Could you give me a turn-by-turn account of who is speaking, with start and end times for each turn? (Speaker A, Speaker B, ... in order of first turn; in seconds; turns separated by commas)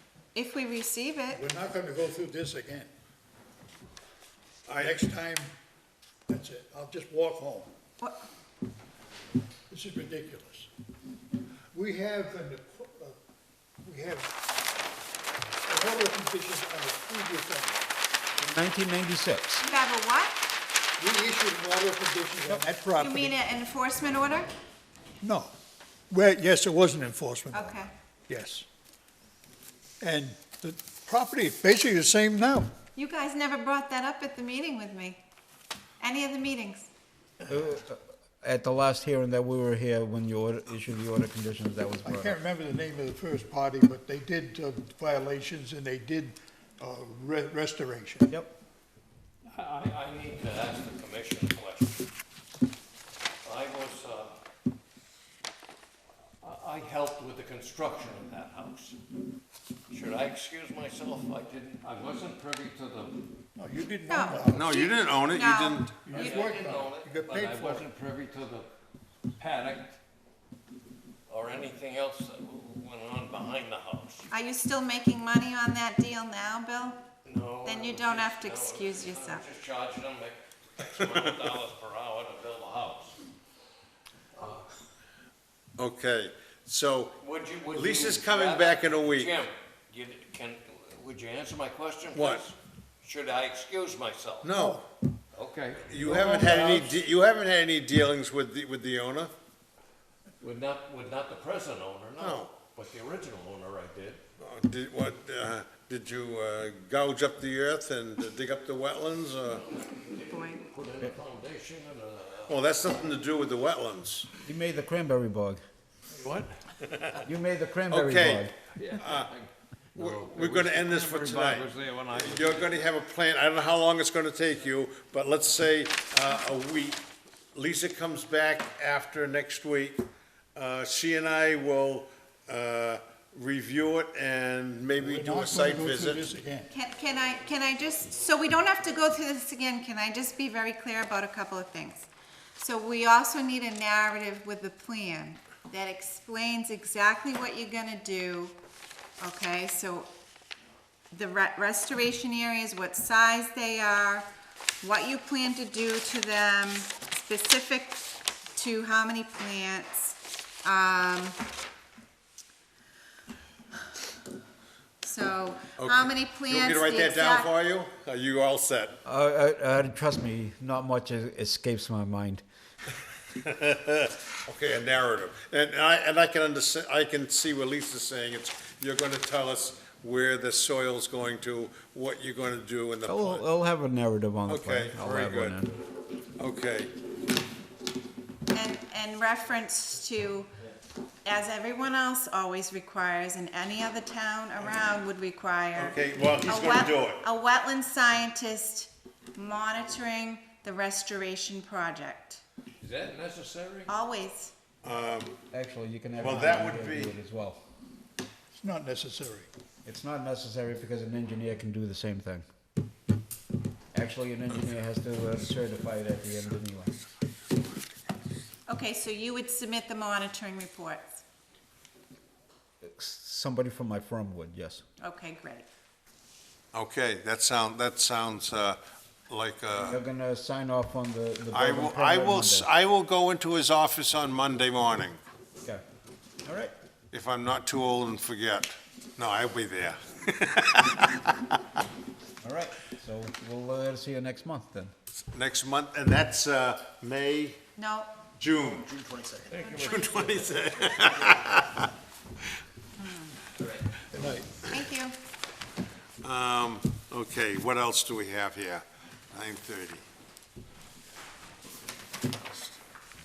Speaker A: 0.3-1.4, Speaker B: 1.3-2.9, Speaker C: 4.7-5.0, Speaker B: 4.8-5.5, Speaker B: 6.3-7.7, Speaker B: 9.7-10.7, Speaker B: 11.7-13.2, Speaker B: 13.8-14.3, Speaker B: 15.7-17.9, Speaker D: 18.4-19.6, Speaker A: 19.6-20.4, Speaker B: 21.0-23.4, Speaker A: 23.0-24.5, Speaker B: 25.2-25.5, Speaker B: 26.1-28.7, Speaker A: 27.5-27.9, Speaker B: 30.0-32.7, Speaker A: 33.0-35.2, Speaker A: 36.0-36.9, Speaker D: 37.5-42.4, Speaker B: 42.0-48.3, Speaker E: 49.5-52.1, Speaker E: 53.4-54.4, Speaker E: 56.4-59.0, Speaker E: 59.9-63.2, Speaker B: 63.6-64.9, Speaker A: 64.1-65.9, Speaker C: 64.5-66.0, Speaker B: 65.9-67.9, Speaker E: 66.1-68.7, Speaker E: 69.4-70.0, Speaker E: 71.3-74.3, Speaker A: 74.3-77.1, Speaker E: 77.2-83.2, Speaker A: 77.6-79.5, Speaker C: 81.0-81.4, Speaker E: 84.4-84.7, Speaker C: 85.8-87.2, Speaker E: 87.2-94.5, Speaker C: 87.7-89.4, Speaker C: 92.1-92.4, Speaker C: 94.4-94.8, Speaker E: 95.3-96.2, Speaker C: 95.9-99.3, Speaker B: 96.1-96.9, Speaker E: 100.4-104.2, Speaker C: 102.2-102.5, Speaker C: 104.4-109.7, Speaker E: 109.8-112.6, Speaker A: 110.2-110.6, Speaker C: 112.5-114.3, Speaker D: 114.4-115.6, Speaker E: 116.1-116.6, Speaker C: 116.8-117.3, Speaker D: 117.2-118.5, Speaker C: 117.9-119.3, Speaker E: 118.8-122.8, Speaker C: 120.0-127.0, Speaker C: 127.5-136.3, Speaker B: 135.0-136.8, Speaker A: 136.7-148.5, Speaker A: 149.2-150.1, Speaker A: 151.1-154.3, Speaker A: 154.8-161.4, Speaker A: 165.0-167.5, Speaker C: 165.8-169.0, Speaker D: 169.1-172.4, Speaker C: 173.4-183.5, Speaker D: 183.1-185.7, Speaker C: 184.5-185.6, Speaker C: 186.4-186.9, Speaker A: 188.5-190.5, Speaker A: 191.2-202.4, Speaker C: 195.8-197.2, Speaker E: 202.8-203.9, Speaker A: 203.9-204.5, Speaker C: 204.8-205.4, Speaker D: 205.5-207.6, Speaker C: 206.2-207.2, Speaker B: 208.6-209.5, Speaker D: 209.8-212.4, Speaker D: 213.9-216.9, Speaker A: 218.7-221.2, Speaker D: 222.8-224.8, Speaker A: 225.0-225.7, Speaker C: 226.7-228.8, Speaker C: 229.3-230.0, Speaker D: 229.9-232.7, Speaker C: 231.5-235.2, Speaker D: 236.4-236.7, Speaker C: 237.1-241.6, Speaker D: 242.4-244.9, Speaker C: 245.3-247.6, Speaker A: 247.8-248.1, Speaker C: 248.4-248.9, Speaker E: 249.0-250.6, Speaker A: 249.5-250.2, Speaker C: 249.8-251.9, Speaker A: 253.0-253.5, Speaker B: 254.1-254.7, Speaker A: 254.7-255.2, Speaker C: 256.2-260.1